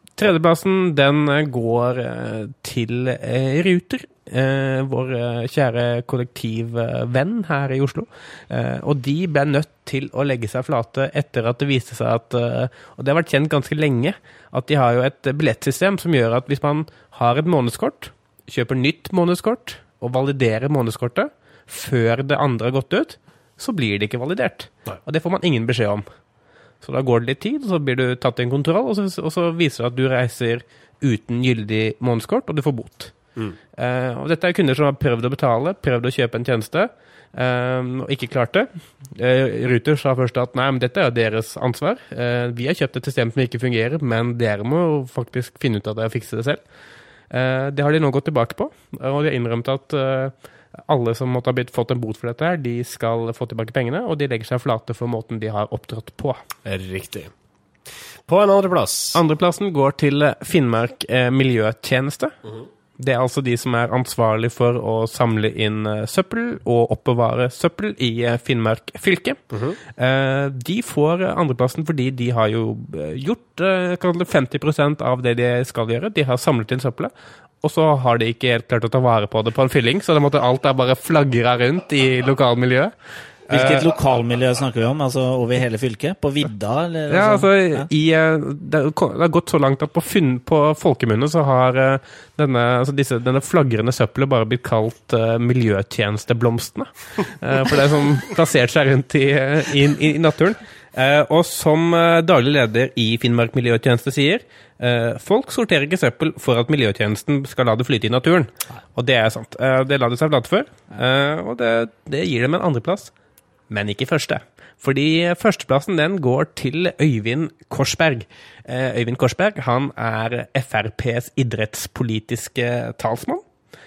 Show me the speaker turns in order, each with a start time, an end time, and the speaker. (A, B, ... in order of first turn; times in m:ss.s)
0:00.2-0:26.1 A
0:26.8-0:33.2 A
0:33.8-0:46.6 A
0:47.3-0:56.4 A
0:56.6-0:57.3 B
0:58.3-0:59.2 B
0:59.2-1:02.4 A
1:03.0-1:09.4 A
1:09.5-1:09.8 B
1:10.0-1:22.9 A
1:23.5-1:23.9 A
1:23.5-1:27.9 C
1:27.1-1:53.1 A
1:53.7-2:03.4 A